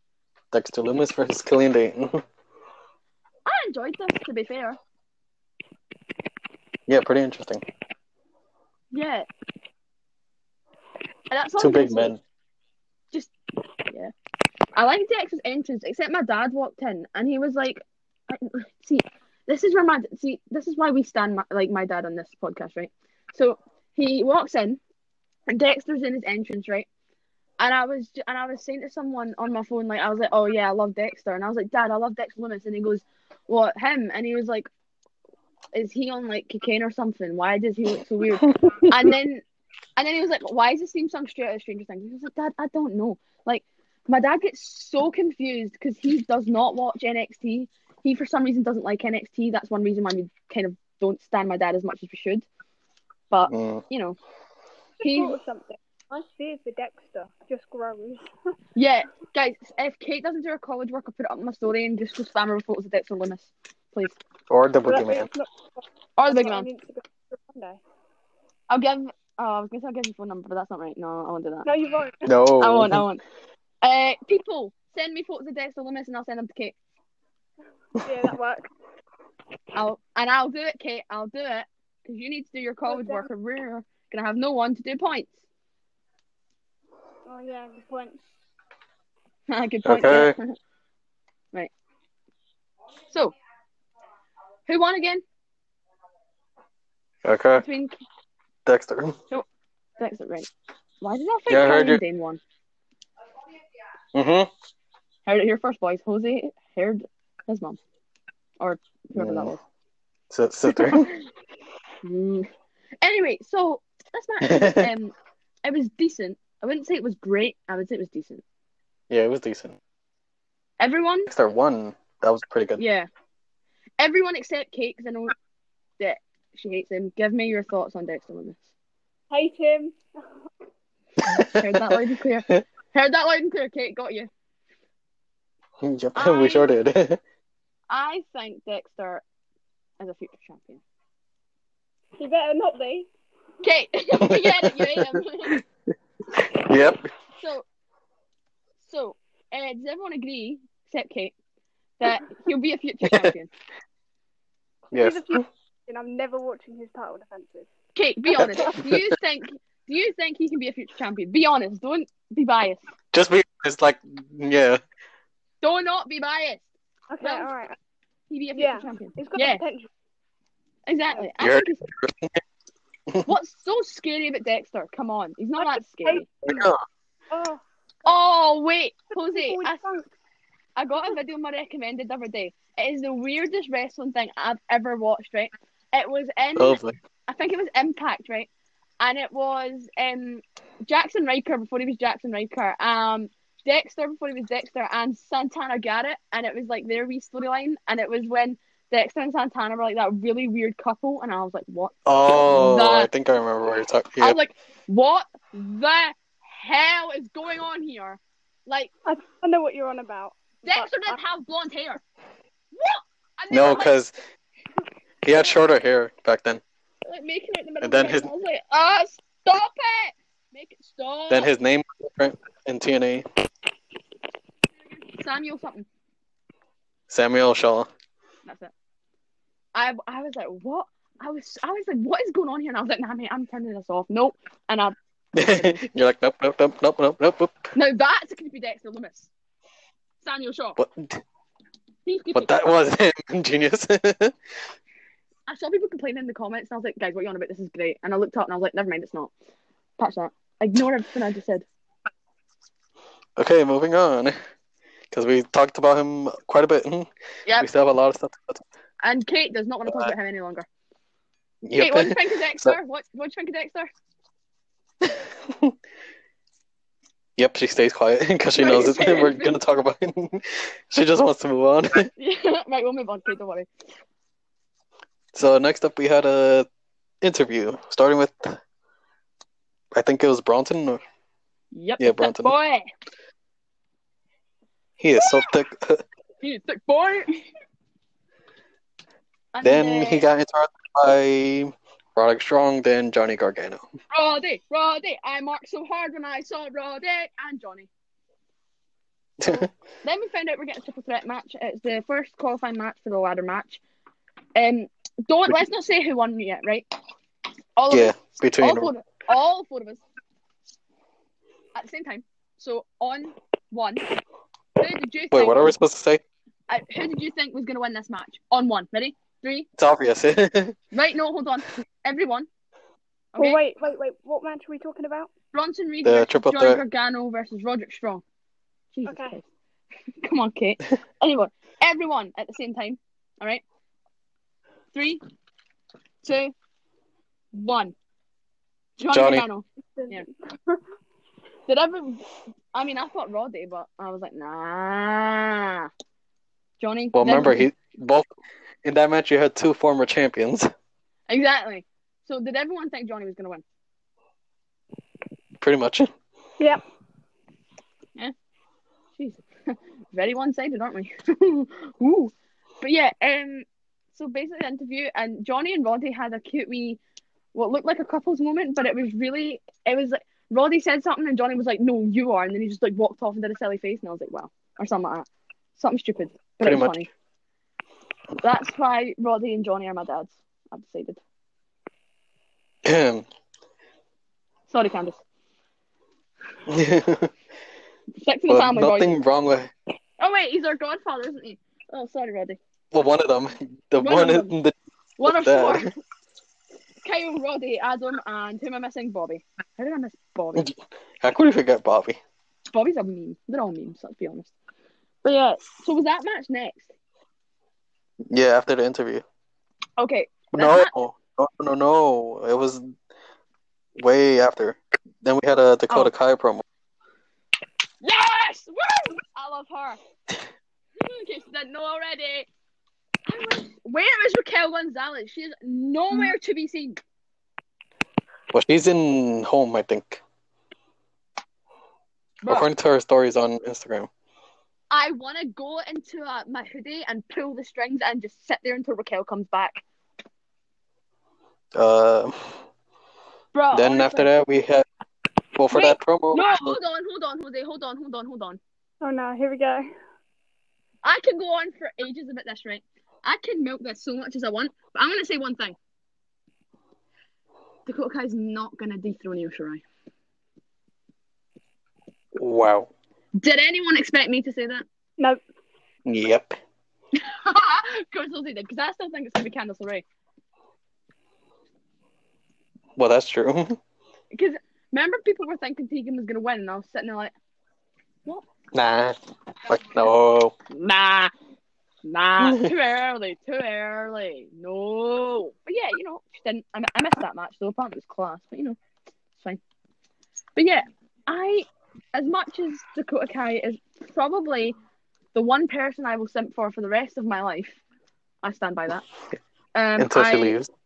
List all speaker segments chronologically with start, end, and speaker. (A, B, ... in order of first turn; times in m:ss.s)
0:00.5-0:02.2 A
0:03.4-0:04.8 B
0:06.9-0:07.6 A
0:08.9-0:09.3 B
0:11.3-0:12.1 B
0:11.6-0:12.2 A
0:14.7-0:24.8 B
0:25.5-0:26.9 B
0:27.6-0:34.7 B
0:35.7-0:39.4 B
0:40.0-0:52.4 B
0:53.3-0:54.2 B
0:53.5-0:53.8 A
0:55.0-0:55.4 B
0:55.0-0:58.3 C
0:58.8-1:04.2 B
1:04.5-1:05.3 A
1:04.8-1:07.8 C
1:06.2-1:06.7 B
1:08.7-1:11.7 B
1:11.6-1:12.3 C
1:12.2-1:13.0 A
1:12.6-1:13.2 B
1:13.8-1:16.7 B
1:18.0-1:18.2 A
1:18.0-1:18.7 C
1:19.7-1:25.4 B
1:22.9-1:23.3 C
1:27.2-1:28.2 C
1:29.5-1:30.5 B
1:29.8-1:30.4 A
1:34.7-1:35.2 B
1:37.2-1:37.6 A
1:37.6-1:38.0 B
1:38.6-1:39.2 A
1:40.0-1:40.5 B
1:41.0-1:42.4 B
1:41.5-1:42.0 A
1:44.1-1:44.5 A
1:45.2-1:47.8 B
1:48.6-1:49.6 B
1:49.1-1:49.5 A
1:50.3-1:51.1 A
1:50.7-1:51.2 B
1:52.0-1:52.5 B
1:53.0-1:58.4 B
1:54.4-1:54.9 A
1:59.1-1:59.8 A
2:00.8-2:01.3 B
2:01.3-2:02.8 A
2:02.8-2:03.1 B
2:04.0-2:05.3 B
2:06.0-2:08.7 B
2:09.3-2:10.0 C
2:11.2-2:14.3 B
2:11.2-2:12.0 A
2:15.8-2:17.2 A
2:16.1-2:16.7 B
2:17.9-2:19.2 B
2:20.0-2:20.8 B
2:22.2-2:23.1 C
2:23.6-2:25.6 B
2:24.2-2:25.6 A
2:26.3-2:27.0 A
2:27.4-2:27.6 B
2:28.8-2:31.3 B
2:32.0-2:33.5 B
2:33.0-2:33.3 A
2:34.9-2:35.4 A
2:34.9-2:37.7 C
2:37.9-2:42.8 B
2:38.4-2:39.1 A
2:43.1-2:44.8 A
2:45.6-2:46.7 B
2:47.1-2:47.8 C
2:47.2-2:47.5 B
2:48.3-2:49.6 B
2:48.6-2:49.9 C
2:50.8-2:51.8 B
2:51.4-2:52.4 A
2:53.2-2:56.3 B
2:55.6-2:56.2 C
2:56.4-2:56.8 A
2:57.3-2:57.6 C
2:58.0-2:59.8 B
2:59.3-3:00.1 C
3:00.8-3:23.1 B
3:06.6-3:07.0 A
3:22.0-3:24.4 A
3:24.2-3:28.9 B
3:29.0-3:31.2 C
3:30.6-3:32.0 B
3:32.7-3:34.0 B
3:33.5-3:34.1 A
3:35.2-3:36.6 A
3:37.0-3:41.5 B
3:37.8-3:38.3 A
3:41.3-3:43.2 A
3:45.1-3:45.9 B
3:47.1-3:47.9 A
3:48.4-3:48.7 B
3:49.7-3:55.8 B
3:55.3-3:57.7 A
3:57.7-3:59.3 B
4:00.2-4:00.8 B
4:00.8-4:01.2 A
4:02.0-4:02.6 B
4:02.3-4:04.3 A
4:05.5-4:09.3 B
4:10.0-4:11.6 B
4:13.4-4:14.4 A
4:15.1-4:18.6 A
4:19.0-4:20.7 B
4:19.9-4:20.1 A
4:21.6-4:22.8 A
4:21.8-4:23.9 B
4:25.0-4:25.8 A
4:27.4-4:32.1 A
4:28.6-4:29.6 B
4:32.2-4:33.7 B
4:35.3-4:36.7 A
4:37.2-4:38.6 A
4:39.9-4:41.0 A
4:41.7-4:42.8 B
4:42.0-4:42.5 A
4:45.0-4:46.0 A
4:45.2-4:45.4 B
4:46.4-4:47.4 B
4:49.5-4:50.2 B
4:49.6-4:53.8 A
4:54.1-4:57.9 B
4:59.4-4:59.7 A
4:59.4-5:03.8 B
5:04.6-5:06.9 B
5:07.8-5:10.0 B
5:07.9-5:08.9 A
5:11.7-5:14.0 B
5:14.8-5:15.7 B
5:15.3-5:16.2 A
5:16.7-5:19.7 B
5:19.8-5:20.8 A
5:20.9-5:22.5 B
5:23.3-5:23.6 B
5:23.4-5:25.3 C
5:25.5-5:28.2 B
5:26.0-5:26.8 A
5:28.9-5:29.5 B
5:29.0-5:29.4 C
5:30.2-5:33.6 B
5:34.9-5:35.2 B
5:36.2-5:36.5 B
5:37.5-5:37.9 B
5:39.0-5:40.3 B
5:39.1-5:39.4 A
5:40.0-5:40.8 C
5:41.7-5:45.9 B
5:46.8-5:47.7 B
5:47.1-5:48.3 A
5:48.8-5:50.7 A
5:51.3-5:53.6 B
5:55.6-5:56.1 A
5:59.2-6:07.0 B
6:07.5-6:17.1 B
6:16.6-6:16.9 A
6:18.4-6:21.2 B
6:22.8-6:23.2 A
6:24.7-6:25.2 B
6:26.7-6:27.3 A
6:28.2-6:29.1 B
6:28.5-6:29.7 A
6:30.2-6:32.6 B
6:32.9-6:35.9 A
6:34.0-6:34.5 B
6:35.2-6:35.9 B
6:37.0-6:40.7 B
6:40.5-6:42.2 A
6:42.7-6:44.5 B
6:45.2-6:46.9 B
6:48.3-6:49.2 A
6:50.0-6:50.9 B
6:50.5-6:52.9 A
6:54.0-6:56.6 A
6:58.0-7:00.0 B
7:01.0-7:02.5 B
7:03.2-7:07.0 B
7:08.5-7:10.2 A
7:12.4-7:12.7 B
7:12.4-7:14.1 A
7:14.9-7:19.8 B
7:21.7-7:22.5 A
7:23.5-7:24.3 B
7:23.7-7:24.8 A
7:25.6-7:26.8 A
7:25.7-7:28.6 B
7:29.0-7:29.9 C
7:31.0-7:35.8 B
7:37.8-7:39.8 B
7:42.4-7:42.9 A
7:43.4-7:44.8 B
7:46.0-7:46.6 A
7:47.2-7:50.0 B
7:53.0-7:53.8 A
7:54.3-7:57.3 B
7:58.7-8:00.5 A
8:00.7-8:01.3 B
8:02.0-8:08.8 B
8:02.4-8:02.7 A
8:10.6-8:14.8 B
8:15.3-8:17.8 B
8:18.4-8:19.0 B
8:19.7-8:20.6 B
8:20.0-8:20.7 A